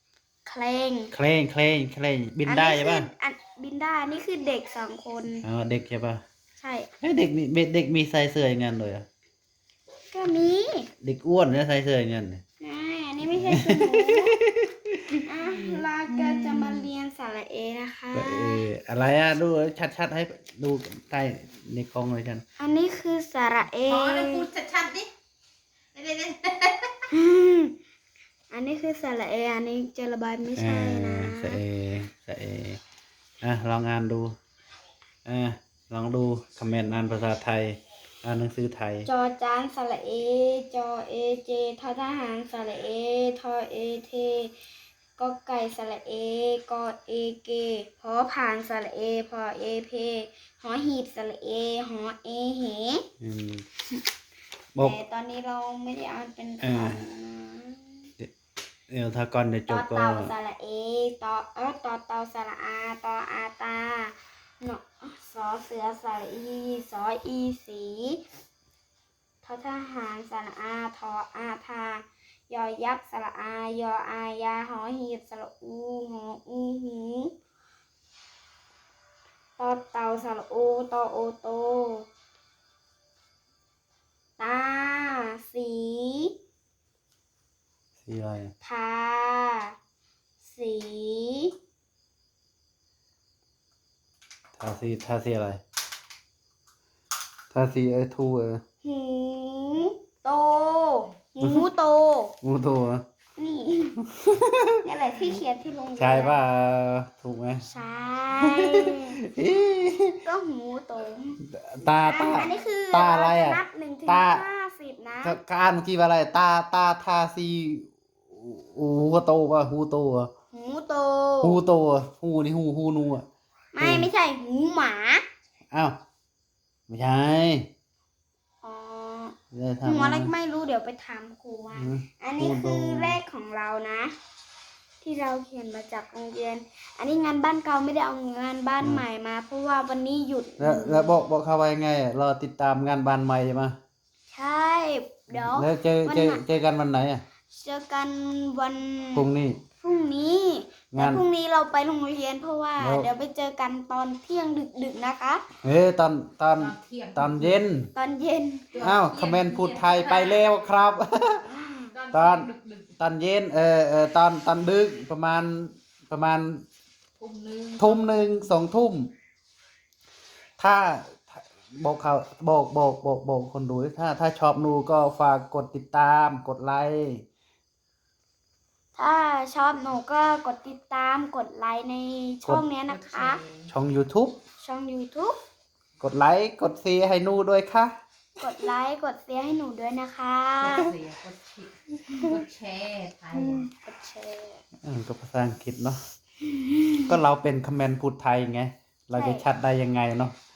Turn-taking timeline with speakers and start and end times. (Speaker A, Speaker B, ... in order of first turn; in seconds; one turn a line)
Speaker A: 0.5-1.1
Speaker B: 1.1-3.1
Speaker A: 2.5-5.5
Speaker B: 5.4-6.2
Speaker A: 6.6-6.9
Speaker B: 7.0-9.1
Speaker A: 10.1-10.9
Speaker B: 11.0-12.4
Speaker A: 12.6-14.4
Speaker B: 13.3-15.2
Speaker A: 15.2-18.7
Speaker C: 15.4-16.9
Speaker B: 18.1-22.4
Speaker A: 22.6-24.5
Speaker C: 23.9-25.1
Speaker C: 25.9-27.0
Speaker A: 27.1-27.8
Speaker A: 28.5-31.6
Speaker B: 30.6-32.8
Speaker B: 33.4-34.4
Speaker B: 35.3-39.1
Speaker A: 39.0-44.6
Speaker A: 45.2-53.0
Speaker B: 53.2-53.6
Speaker A: 54.8-58.1
Speaker B: 56.6-57.1
Speaker B: 58.9-60.3
Speaker A: 59.7-68.2
Speaker A: 69.4-77.3
Speaker A: 79.6-82.1
Speaker A: 84.4-86.3
Speaker B: 88.0-88.5
Speaker A: 88.6-89.8
Speaker A: 90.4-91.5
Speaker B: 94.6-95.6
Speaker B: 97.5-98.6
Speaker A: 98.8-102.3
Speaker B: 101.4-101.7
Speaker B: 102.4-103.0
Speaker A: 103.4-104.0
Speaker B: 104.1-104.8
Speaker A: 104.8-106.5
Speaker B: 106.0-107.7
Speaker A: 107.7-109.2
Speaker B: 108.4-110.2
Speaker A: 110.2-111.4
Speaker B: 111.5-114.4
Speaker A: 111.9-115.4
Speaker B: 115.2-120.3
Speaker A: 120.5-121.6
Speaker B: 121.4-123.2
Speaker A: 123.7-125.2
Speaker B: 123.8-124.1
Speaker B: 125.7-126.0
Speaker B: 126.9-127.7
Speaker A: 128.6-134.1
Speaker B: 129.5-130.3
Speaker B: 131.8-133.2
Speaker A: 135.0-141.1
Speaker B: 138.8-139.1
Speaker B: 140.6-143.8
Speaker A: 144.3-146.4
Speaker B: 145.3-147.2
Speaker A: 147.5-155.4
Speaker B: 149.1-149.6
Speaker B: 150.9-151.2
Speaker B: 152.8-153.1
Speaker B: 155.6-157.9
Speaker C: 156.6-157.6
Speaker A: 157.9-158.7
Speaker C: 158.7-160.5
Speaker B: 158.8-161.5
Speaker C: 161.5-162.9
Speaker A: 161.6-161.9
Speaker B: 162.1-166.6
Speaker C: 167.2-168.1
Speaker B: 167.8-169.1
Speaker B: 170.6-177.2
Speaker A: 178.9-183.4
Speaker C: 182.9-183.7
Speaker B: 183.7-184.4
Speaker A: 184.6-185.4
Speaker B: 186.0-187.9
Speaker A: 188.4-190.9
Speaker C: 190.6-193.7
Speaker A: 192.1-192.4
Speaker A: 193.3-194.6
Speaker B: 194.8-196.0
Speaker A: 196.4-197.2
Speaker B: 197.1-200.3
Speaker A: 199.2-199.5